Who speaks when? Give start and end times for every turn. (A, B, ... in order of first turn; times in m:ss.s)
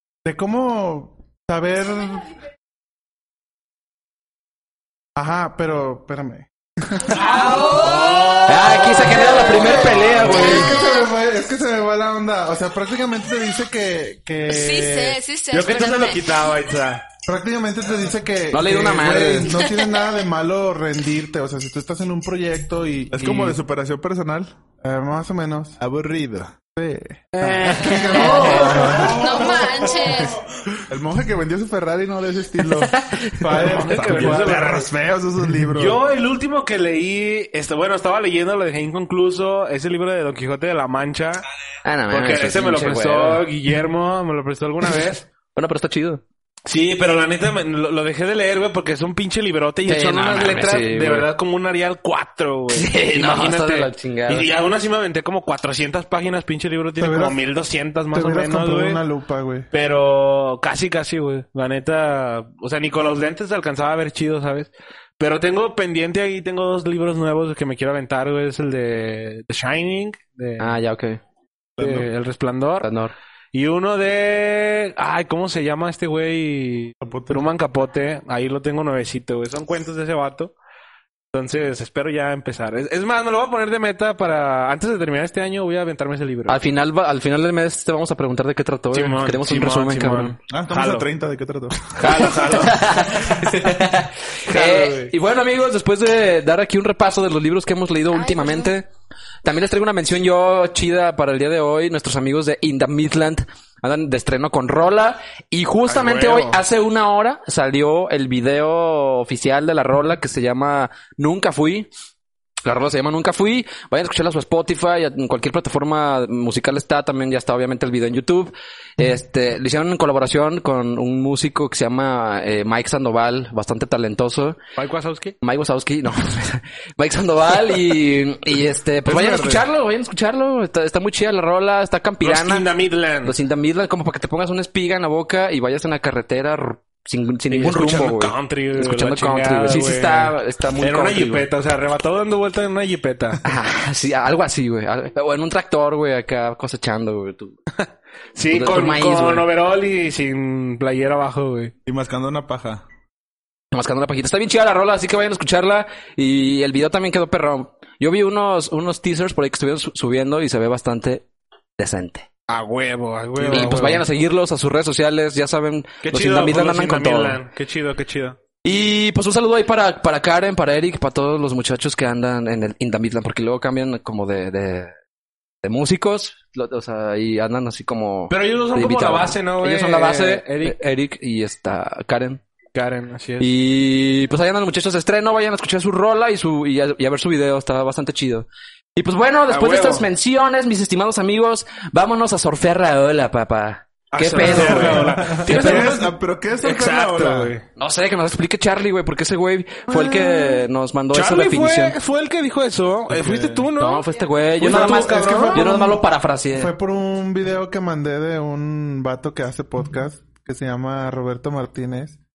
0:00.2-0:02.3 A
0:05.2-0:07.4 A
0:07.1-0:10.7 B
0:07.4-0:08.4 C
0:08.4-0:10.8 D
0:09.5-0:15.2 A
0:14.5-0:16.2 C
0:15.5-0:17.0 B
0:17.2-0:23.6 A
0:18.5-0:19.6 D
0:19.6-0:20.0 C
0:23.1-0:24.5 E
0:24.8-0:25.8 A
0:25.8-0:26.5 E
0:26.7-0:29.7 A
0:27.4-0:29.1 B
0:27.9-0:30.4 C
0:28.4-0:29.6 E
0:30.9-0:32.9 E
0:33.4-0:34.8 A
0:33.4-0:36.0 E
0:33.5-0:34.9 B
0:35.7-0:41.4 B
0:41.8-0:43.4 D
0:42.1-0:45.2 B
0:45.5-0:46.2 D
0:46.6-0:59.0 B
0:49.8-0:51.3 D
0:52.7-0:54.5 D
0:57.0-0:57.4 A
0:58.1-0:59.7 A
0:59.7-1:10.8 B
1:10.6-1:11.2 D
1:11.8-1:12.1 E
1:11.8-1:12.9 B
1:12.8-1:13.1 D
1:13.5-1:20.5 B
1:17.0-1:17.4 E
1:21.3-1:26.6 B
1:26.5-1:30.4 D
1:28.9-1:31.1 B
1:30.5-1:32.3 E
1:32.0-1:33.6 B
1:32.0-1:38.9 D
1:34.5-1:35.1 B
1:38.1-1:38.7 C
1:39.4-1:51.9 D
1:45.8-1:46.6 B
1:52.6-2:04.6 D
2:04.8-2:05.4 B
2:05.4-2:12.7 D
2:09.0-2:09.6 E
2:12.2-2:13.4 B
2:13.2-2:21.4 D
2:17.5-2:23.4 B
2:23.4-2:27.6 D
2:27.8-2:31.7 B
2:28.5-2:29.5 D
2:31.8-2:32.8 E
2:33.7-2:41.2 D
2:41.8-2:42.3 D
2:42.5-2:44.0 B
2:43.5-2:47.4 D
2:46.0-2:48.4 B
2:48.6-2:54.9 D
2:55.6-3:02.4 D
2:58.3-3:00.8 B
3:02.7-3:03.5 B
3:03.4-3:16.0 D
3:09.5-3:10.1 B
3:14.1-3:17.6 B
3:14.4-3:17.6 E
3:14.4-3:15.5 A
3:17.8-3:22.0 D
3:19.9-3:20.6 A
3:21.1-3:25.8 B
3:23.1-3:23.7 E
3:23.8-3:26.7 D
3:24.6-3:26.0 A
3:26.5-3:32.2 A